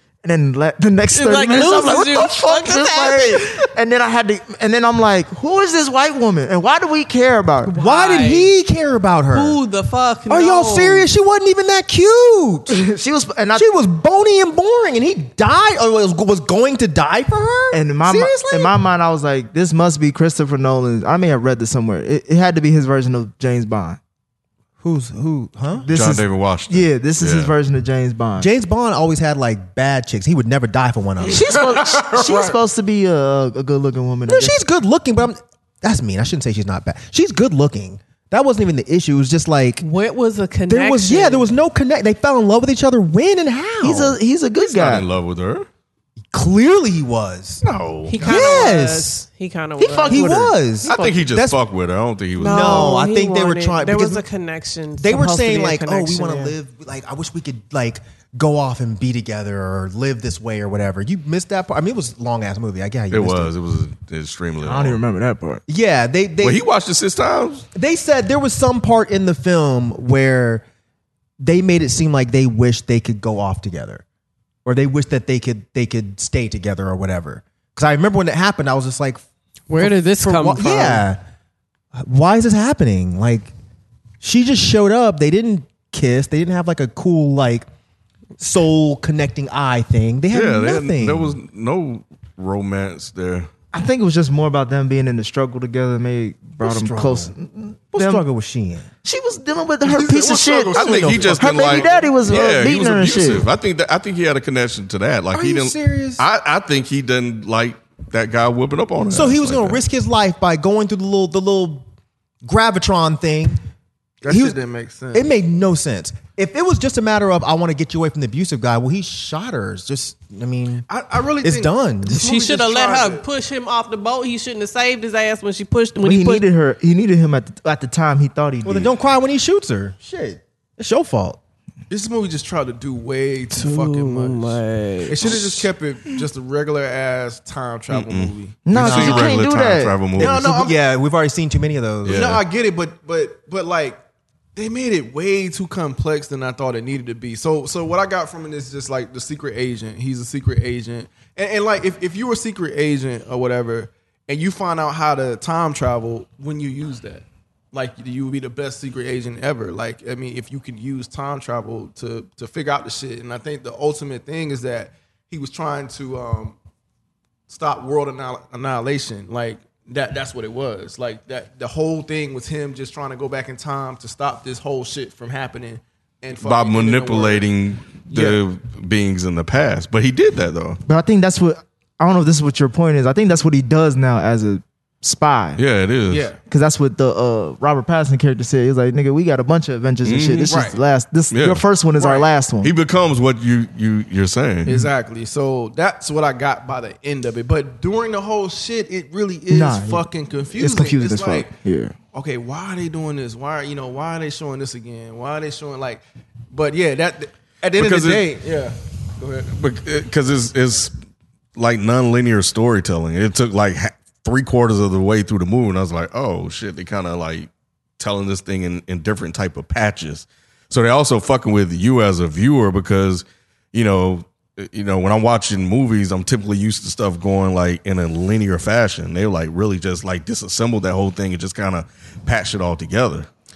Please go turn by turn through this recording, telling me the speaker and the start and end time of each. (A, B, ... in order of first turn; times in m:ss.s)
0:00.2-0:07.7 A
0:01.1-0:03.6 B
0:07.6-0:08.5 B
0:07.8-0:09.6 C
0:09.3-0:11.1 B
0:10.3-0:12.8 C
0:12.7-0:13.7 A
0:13.5-0:18.7 C
0:17.7-0:24.0 A
0:24.8-0:25.9 C
0:25.7-0:28.5 A
0:25.9-0:27.5 D
0:28.4-0:31.6 C
0:31.2-0:34.6 A
0:31.4-0:32.6 E
0:34.3-0:39.8 C
0:39.8-0:41.5 B
0:40.7-0:44.2 C
0:43.8-0:45.1 A
0:44.6-0:45.7 D
0:46.3-0:47.6 C
0:47.6-0:48.2 D
0:48.1-0:50.6 B
0:48.2-0:49.2 C
0:48.2-0:48.6 E
0:49.8-0:51.6 C
0:50.8-0:53.0 D
0:52.4-0:56.6 B
0:52.4-0:54.2 C
0:55.0-1:03.5 C
1:03.1-1:05.0 D
1:04.6-1:05.6 A
1:05.7-1:06.6 C
1:06.4-1:07.7 D
1:07.8-1:10.6 C
1:11.4-1:14.0 C
1:14.6-1:19.2 C
1:19.7-1:21.0 B
1:19.8-1:21.2 C
1:22.0-1:23.5 C
1:24.2-1:27.7 C
1:28.4-1:31.4 C
1:30.3-1:33.5 D
1:33.7-1:38.2 A
1:36.6-1:37.3 C
1:37.9-1:38.9 C
1:39.0-1:43.5 A
1:39.9-1:42.0 C
1:40.0-1:42.1 E
1:40.7-1:49.8 D
1:45.3-1:46.2 C
1:49.1-1:51.9 C
1:52.4-1:53.6 C
1:54.2-1:55.3 E
1:54.3-1:54.6 C
1:55.1-2:00.9 C
2:00.9-2:03.2 E
2:01.4-2:02.2 C
2:02.1-2:06.5 B
2:06.0-2:08.9 A
2:08.6-2:11.4 C
2:11.9-2:18.7 E
2:13.5-2:15.3 B
2:17.9-2:20.4 D
2:18.6-2:20.1 A
2:18.7-2:19.4 C
2:20.2-2:20.8 E
2:20.2-2:22.4 C
2:22.0-2:22.4 D
2:22.1-2:24.0 E
2:24.6-2:46.6 E
2:47.5-2:57.5 E
2:56.4-3:00.8 D
2:58.1-2:58.4 E
3:00.9-3:05.6 A
3:05.6-3:06.3 D
3:06.1-3:06.4 E
3:06.5-3:12.7 A
3:10.0-3:10.6 D
3:10.5-3:10.8 E
3:11.3-3:11.6 D
3:12.0-3:12.3 E
3:12.6-3:14.9 D
3:14.6-3:21.5 E
3:19.5-3:21.9 A
3:22.1-3:29.5 E
3:27.8-3:28.3 D
3:29.5-3:31.0 D
3:31.6-3:53.3 D